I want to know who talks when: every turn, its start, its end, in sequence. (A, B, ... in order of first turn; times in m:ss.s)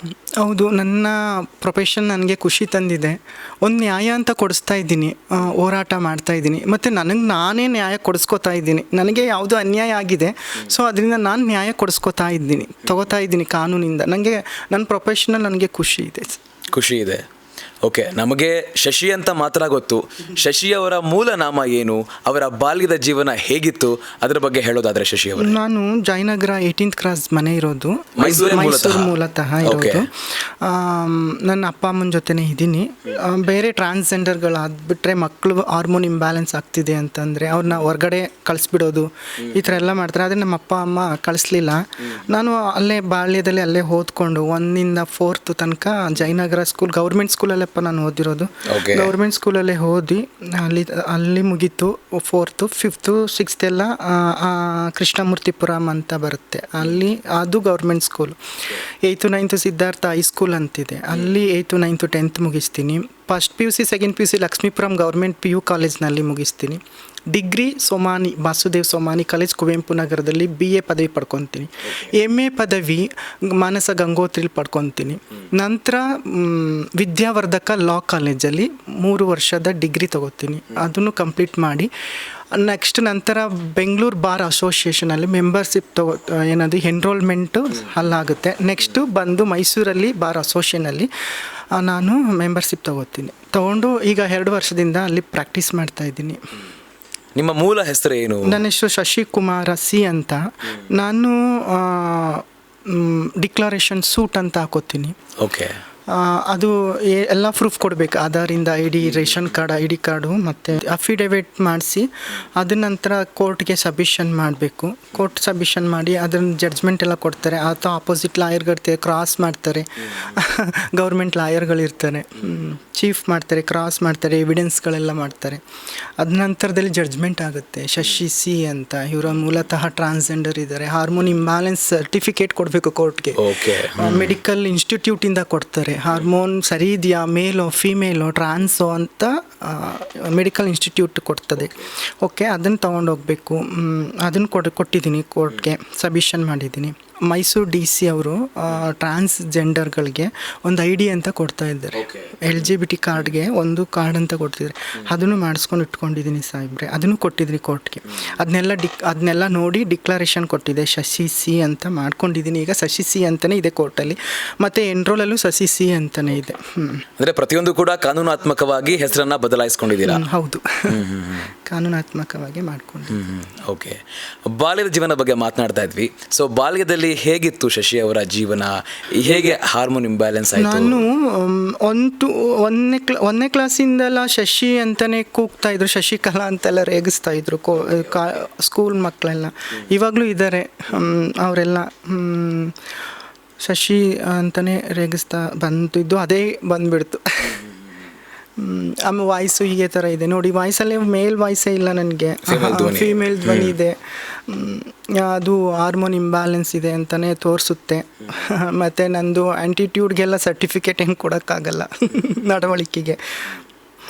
0:00.4-0:16.4 A
0:16.7-0:17.2 B
0:17.8-0:25.6 B
0:25.4-1:21.9 A
0:28.2-0:29.1 B
0:29.6-0:30.1 B
0:48.7-0:49.1 B
1:22.5-1:31.1 A
1:31.8-1:36.4 A
1:37.4-1:38.6 B
1:38.4-1:45.2 A
1:45.4-1:45.8 B
1:46.1-2:05.6 A
2:06.2-2:47.0 A
2:13.4-2:14.3 B
2:47.2-2:50.2 B
2:50.0-2:51.0 A
2:50.9-2:51.5 B
2:51.7-2:53.2 A
2:53.1-3:01.0 B
3:00.6-3:12.8 A
3:13.6-3:17.6 A
3:18.6-3:33.6 A
3:22.5-3:23.7 B